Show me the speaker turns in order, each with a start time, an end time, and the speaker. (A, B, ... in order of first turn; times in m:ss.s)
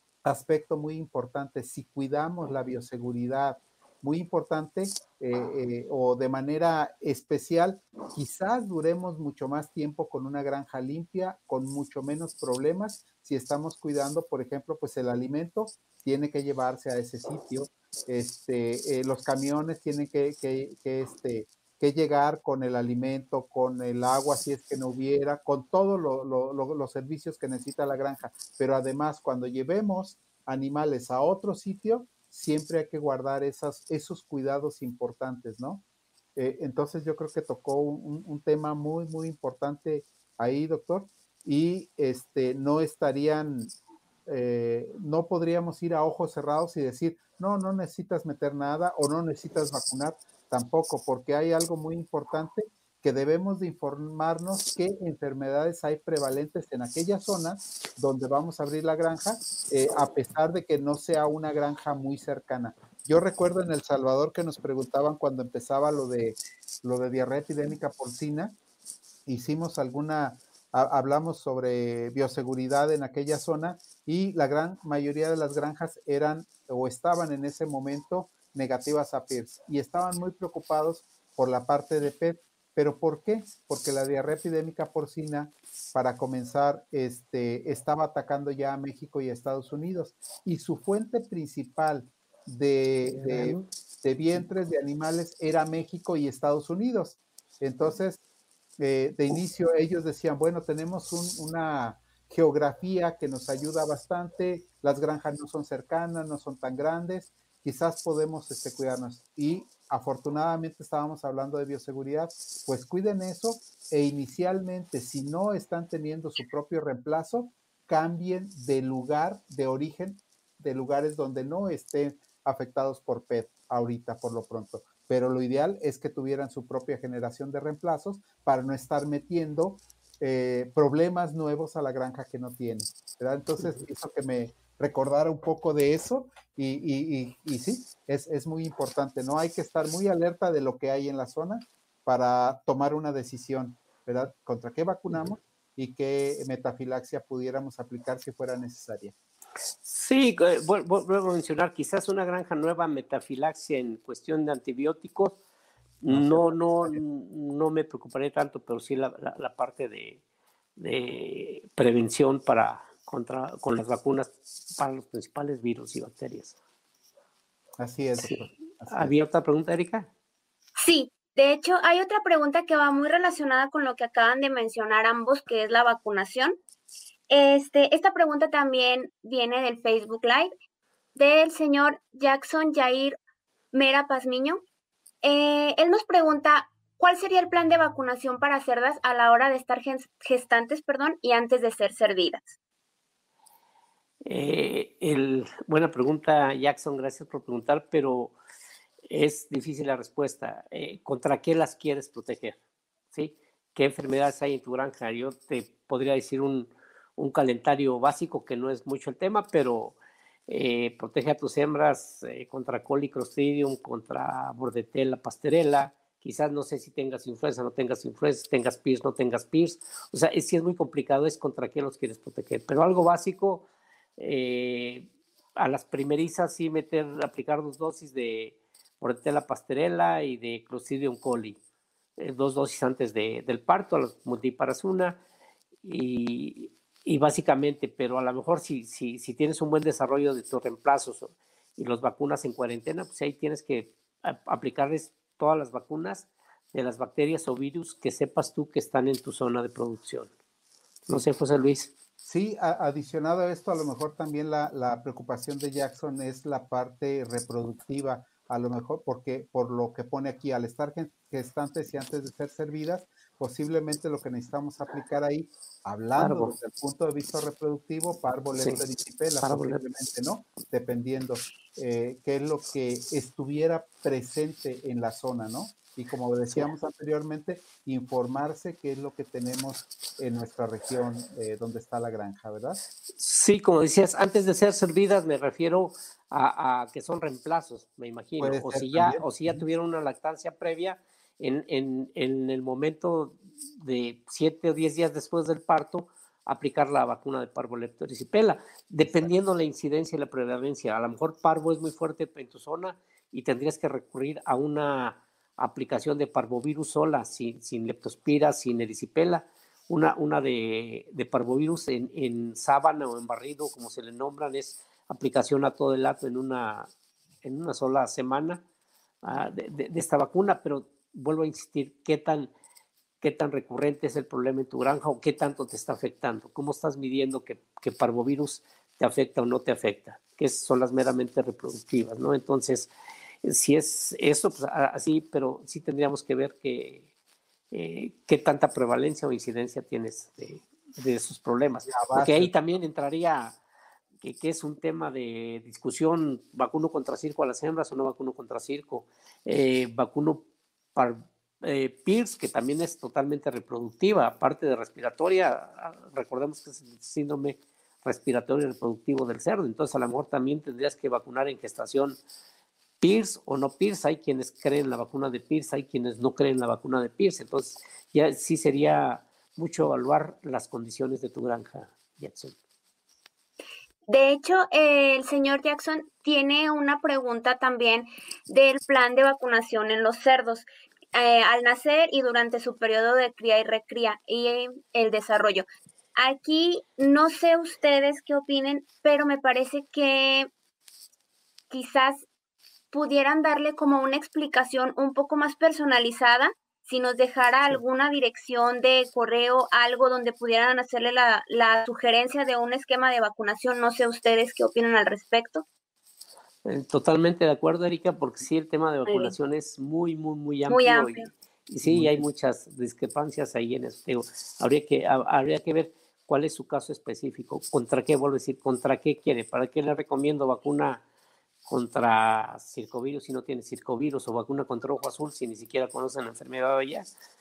0:00.2-0:35.8 A
0:36.4-0:43.7 A
0:44.3-1:08.6 A
1:09.2-1:38.2 A
1:33.0-1:33.7 B
1:38.8-2:29.1 A
2:29.8-2:35.4 B
2:36.0-2:40.2 B
2:36.1-2:37.0 A
2:40.8-2:46.6 B
2:47.8-2:49.1 A
2:48.2-2:50.1 B
2:50.8-2:56.5 C
2:57.3-3:00.5 C
3:01.1-3:03.2 C
3:03.7-3:04.6 C
3:05.2-3:12.6 C
3:14.2-3:18.4 B
3:19.1-3:22.6 B
3:23.1-3:43.7 B
3:44.2-3:51.6 B
3:52.2-3:55.2 B
3:55.8-4:10.3 B
4:11.1-4:11.9 B
4:12.2-4:42.8 A
4:26.2-4:26.5 B
4:29.4-4:29.8 B
4:43.2-5:16.9 B
4:48.4-4:49.6 A
4:59.0-4:59.3 A
5:17.4-5:18.6 B
5:19.2-5:22.5 B
5:23.2-5:32.9 B
5:33.4-5:37.1 B
5:37.7-5:43.6 B
5:41.9-5:42.5 A
5:44.2-6:02.2 B
6:03.0-6:12.6 B
6:14.1-6:30.5 C
6:31.7-6:32.3 C
6:32.9-6:45.6 C
6:46.6-7:01.0 B
6:49.0-6:49.3 C
6:50.7-6:51.3 C
6:51.8-6:52.2 A
7:01.7-7:07.1 B